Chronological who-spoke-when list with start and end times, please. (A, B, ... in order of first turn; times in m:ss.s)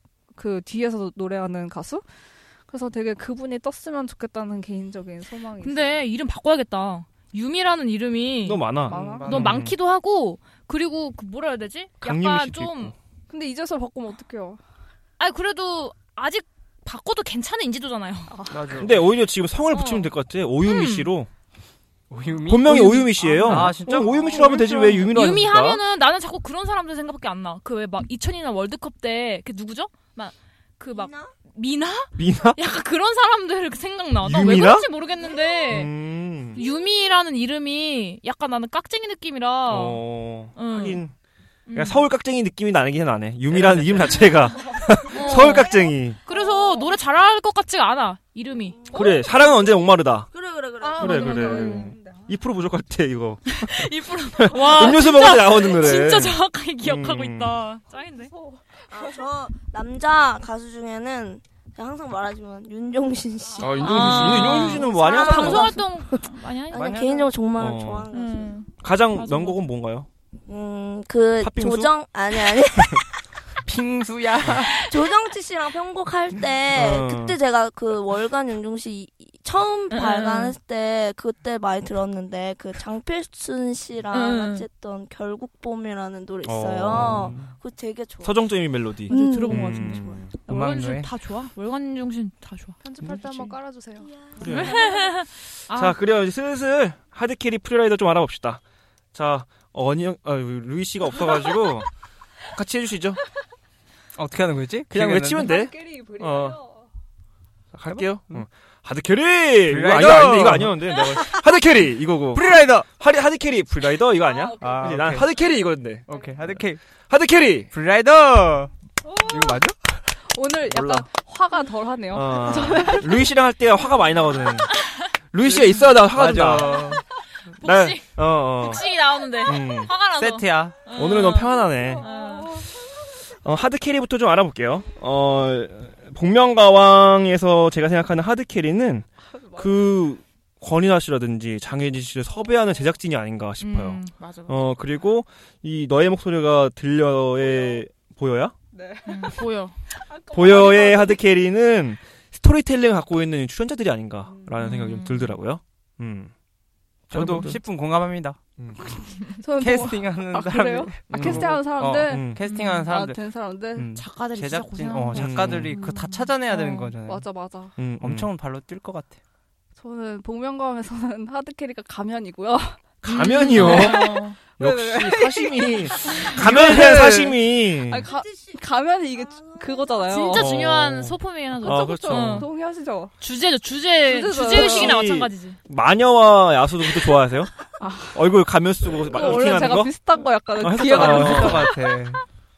0:00.3-0:02.0 A
0:02.7-0:06.0 A
0:05.6-0:12.9 B
0:08.4-0:09.7 C
0:08.9-0:09.7 D
0:08.9-0:09.4 A
0:12.0-0:12.9 C
0:13.3-0:14.6 A
0:15.2-0:18.4 B
0:18.3-0:18.6 A
0:18.5-0:19.1 D
0:18.8-0:21.3 C
0:19.7-0:20.1 B
0:20.6-0:21.1 B
0:22.1-0:24.4 D
0:22.4-0:25.8 C
0:22.9-0:35.9 B
0:23.2-0:23.6 A
0:30.9-0:31.3 E
0:32.2-0:32.6 C
0:34.2-0:34.9 C
0:35.7-0:36.6 C
0:36.6-0:40.0 B
0:39.7-0:41.1 C
0:40.5-0:41.0 B
0:41.7-0:42.0 B
0:41.7-0:46.2 C
0:43.5-0:44.2 D
0:45.1-0:45.7 B
0:46.2-0:48.9 B
0:48.9-0:49.6 E
0:48.9-0:50.3 C
0:50.3-0:51.8 E
0:50.8-0:52.3 A
0:51.0-0:57.6 C
0:53.5-0:58.3 B
0:58.9-1:05.9 E
1:03.6-1:05.9 C
1:03.8-1:07.1 B
1:06.7-1:08.6 E
1:06.7-1:07.2 D
1:07.6-1:08.1 C
1:08.1-1:09.6 B
1:08.8-1:10.1 C
1:10.5-1:13.0 E
1:11.4-1:11.9 C
1:13.6-1:14.7 D
1:14.6-1:28.6 E
1:16.7-1:17.4 C
1:19.9-1:20.5 B
1:24.1-1:24.6 B
1:26.4-1:27.4 C
1:26.9-1:27.5 D
1:28.2-1:30.4 C
1:29.1-1:30.1 E
1:29.1-1:33.5 B
1:30.4-1:31.1 D
1:32.8-1:34.1 A
1:34.0-1:35.1 E
1:34.4-1:34.8 C
1:34.5-1:36.0 B
1:35.7-1:38.6 C
1:39.1-1:41.9 C
1:42.5-1:43.2 C
1:44.1-1:45.5 D
1:44.9-1:46.6 C
1:45.4-1:46.8 A
1:47.7-1:57.7 C
1:47.8-1:48.4 D
1:49.6-1:51.3 D
1:52.3-1:52.9 D
1:54.2-1:55.0 A
1:54.5-1:55.3 D
1:56.1-1:56.8 D
1:57.7-1:58.7 D
1:59.0-1:59.6 A
1:59.2-2:00.0 D
2:00.3-2:03.1 A
2:00.6-2:01.1 C
2:02.1-2:04.7 C
2:05.3-2:06.9 C
2:05.4-2:07.0 D
2:07.6-2:12.6 B
2:07.6-2:08.8 C
2:09.4-2:09.9 C
2:10.1-2:10.8 D
2:10.9-2:12.1 C
2:12.1-2:12.5 A
2:13.4-2:28.5 C
2:23.6-2:24.6 B
2:28.7-2:29.3 A
2:29.0-2:29.8 B
2:30.1-2:31.2 A
2:30.3-2:36.3 C
2:34.6-2:35.4 B
2:37.1-2:38.4 D
2:37.1-2:37.6 C
2:38.6-2:38.8 C
2:39.0-2:42.3 A
2:39.5-2:43.2 D
2:41.1-2:42.4 C
2:42.4-2:42.9 B
2:42.9-2:43.9 A
2:43.8-2:47.3 D
2:43.9-2:45.8 B
2:45.2-2:45.8 C
2:45.8-2:47.7 A
2:47.8-2:48.3 C
2:48.0-2:49.2 D
2:49.8-2:52.8 A
2:53.0-2:58.1 C
2:53.0-2:54.4 B
2:53.5-2:57.3 A
2:56.5-2:57.3 D
2:57.8-3:00.5 A
3:00.1-3:02.5 B
3:00.3-3:02.5 C
3:01.6-3:03.1 A
3:03.2-3:05.6 B
3:04.0-3:05.0 A
3:04.4-3:07.5 C
3:07.8-3:08.2 A
3:08.1-3:10.0 C
3:09.0-3:11.9 A
3:10.6-3:11.7 C
3:10.7-3:12.2 D